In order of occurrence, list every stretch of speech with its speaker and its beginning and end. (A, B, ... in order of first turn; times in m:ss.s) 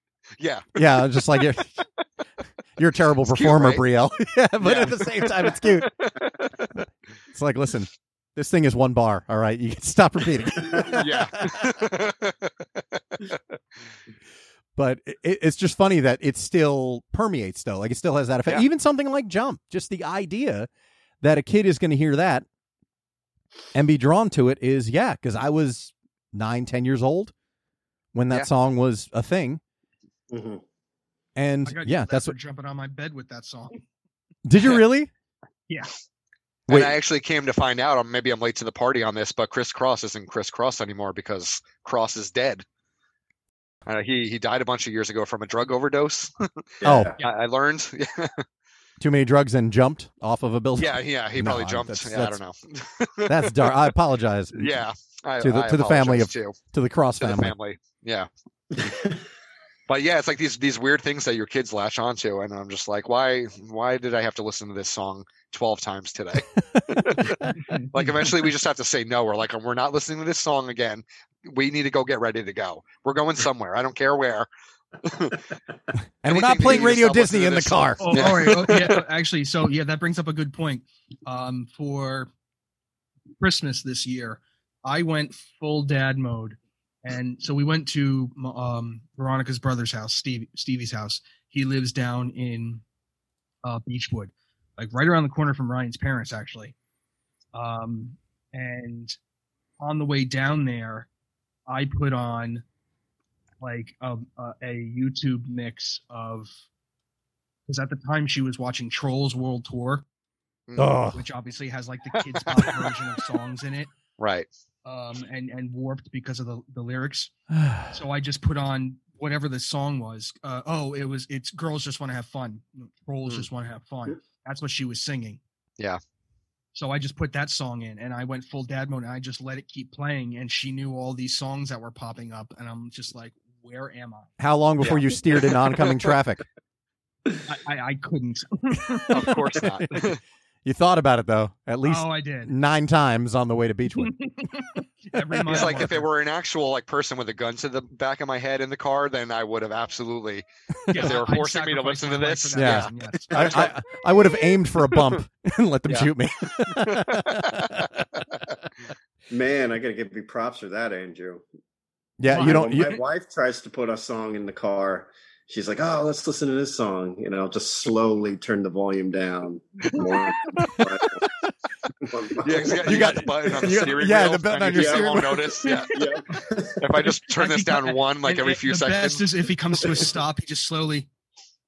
0:00.4-0:01.4 A
0:00.8-0:01.8 B
0:02.8-0:05.9 B
0:03.2-0:03.8 A
0:04.6-0:06.5 A
0:06.8-0:11.6 B
0:10.7-0:13.4 A
0:14.8-0:20.7 B
0:21.2-0:22.4 B
0:23.7-0:27.3 B
0:28.1-0:29.6 B
0:30.3-0:30.6 C
0:31.4-0:32.3 B
0:31.7-0:33.8 D
0:34.4-0:35.1 B
0:36.7-0:37.0 B
0:36.7-0:42.6 A
0:43.9-0:46.5 A
0:46.8-0:47.1 B
0:46.8-0:47.2 C
0:47.2-0:48.4 A
0:49.0-0:52.4 B
0:50.8-0:53.8 A
0:53.3-0:54.8 B
0:54.6-0:56.6 A
0:55.4-0:57.6 B
0:57.2-0:58.3 A
0:58.7-0:59.2 C
0:59.9-1:14.5 A
1:06.7-1:07.5 B
1:07.6-1:07.9 D
1:15.0-1:15.4 A
1:16.2-1:18.5 B
1:16.3-1:19.0 A
1:18.0-1:22.3 D
1:23.4-1:32.8 D
1:33.6-1:36.8 D
1:37.5-1:39.2 D
1:39.8-1:41.1 D
1:41.7-1:42.6 D
1:43.6-1:46.5 D
1:47.7-1:50.0 D
1:50.7-1:50.9 A
1:50.8-1:51.2 B
1:51.1-1:53.9 D
1:52.2-1:52.9 A
1:54.2-1:54.5 A
1:54.8-1:57.3 D
1:57.5-1:57.9 B
1:57.9-2:05.4 D
2:06.7-2:14.3 D
2:14.4-2:16.4 B
2:14.8-2:16.1 A
2:17.5-2:19.4 D
2:19.1-2:20.2 A
2:20.6-2:24.2 B
2:21.8-2:22.5 D
2:24.0-2:26.1 D
2:25.5-2:33.8 A
2:30.9-2:33.7 D
2:32.6-2:38.1 B
2:36.6-2:37.8 A
2:39.3-2:41.4 C
2:42.2-2:43.0 B
2:42.3-2:42.7 D
2:42.3-2:51.2 C
2:50.6-2:51.0 B
2:52.0-2:53.9 C
2:52.4-2:56.0 A
2:52.8-2:55.7 B
2:54.7-2:57.0 C
2:56.8-2:59.3 A
2:57.3-3:01.1 D